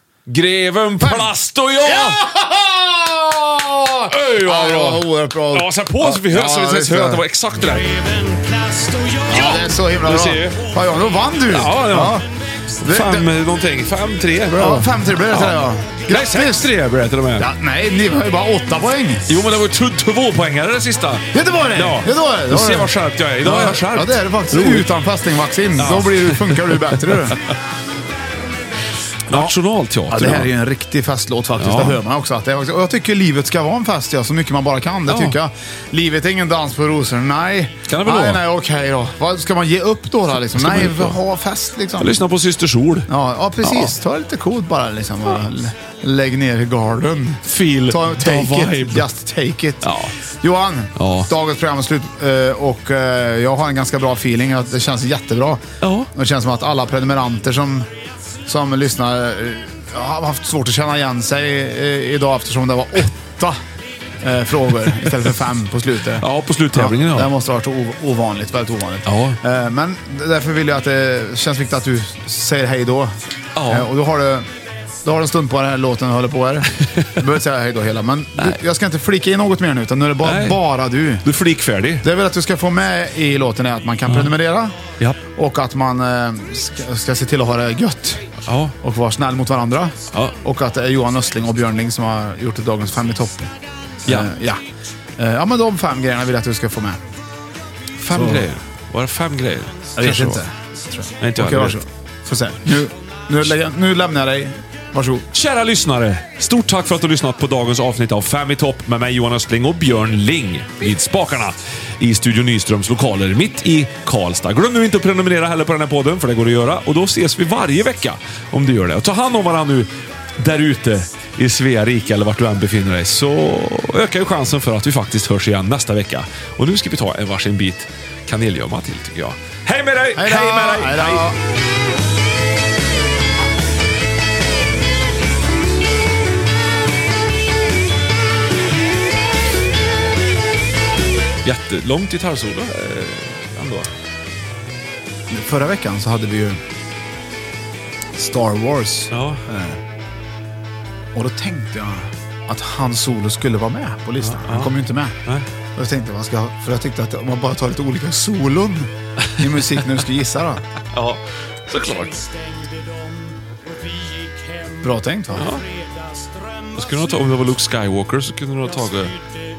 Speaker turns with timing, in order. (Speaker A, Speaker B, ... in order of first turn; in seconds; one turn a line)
Speaker A: 0.3-2.2
Speaker B: 1.0-1.3
Speaker B: 1.8-7.2
Speaker A: 4.1-10.6
Speaker B: 9.3-12.2
Speaker A: 11.5-12.2
Speaker B: 12.8-13.3
Speaker A: 12.8-17.5
Speaker B: 14.5-16.7
Speaker B: 17.4-19.4
Speaker A: 19.3-24.9
Speaker B: 21.3-22.9
Speaker B: 23.4-27.4
Speaker A: 25.8-27.3
Speaker B: 29.3-29.6
Speaker A: 29.3-30.5
Speaker B: 30.1-42.2
Speaker A: 31.6-32.0
Speaker A: 35.1-35.4
Speaker A: 37.9-38.4
Speaker A: 40.5-41.2
Speaker A: 42.0-43.1
Speaker B: 43.1-57.9
Speaker A: 43.6-43.9
Speaker A: 47.5-49.1
Speaker A: 49.8-50.1
Speaker A: 51.0-51.3
Speaker A: 55.8-56.1
Speaker B: 58.5-63.6
Speaker B: 64.2-74.5
Speaker A: 66.2-67.3
Speaker A: 69.0-69.4
Speaker A: 73.5-73.9
Speaker B: 75.0-81.2
Speaker A: 76.8-77.2
Speaker A: 80.2-80.6
Speaker A: 81.2-82.0
Speaker B: 82.0-84.8
Speaker A: 84.1-84.3
Speaker B: 85.3-88.2
Speaker A: 88.4-88.8
Speaker B: 88.8-93.5
Speaker B: 94.0-94.6
Speaker A: 94.0-94.3
Speaker B: 95.2-97.0
Speaker A: 98.0-100.4
Speaker B: 98.1-98.5
Speaker B: 100.0-105.2
Speaker A: 101.2-101.8
Speaker A: 105.3-131.3
Speaker B: 130.1-131.4
Speaker A: 141.4-143.9
Speaker B: 145.3-146.6
Speaker B: 148.1-149.8
Speaker A: 149.1-149.4
Speaker B: 151.1-155.2
Speaker A: 154.2-154.7
Speaker B: 155.7-160.6
Speaker A: 159.2-159.9
Speaker A: 160.9-162.3
Speaker B: 164.8-165.5
Speaker A: 165.3-165.7
Speaker A: 166.7-169.2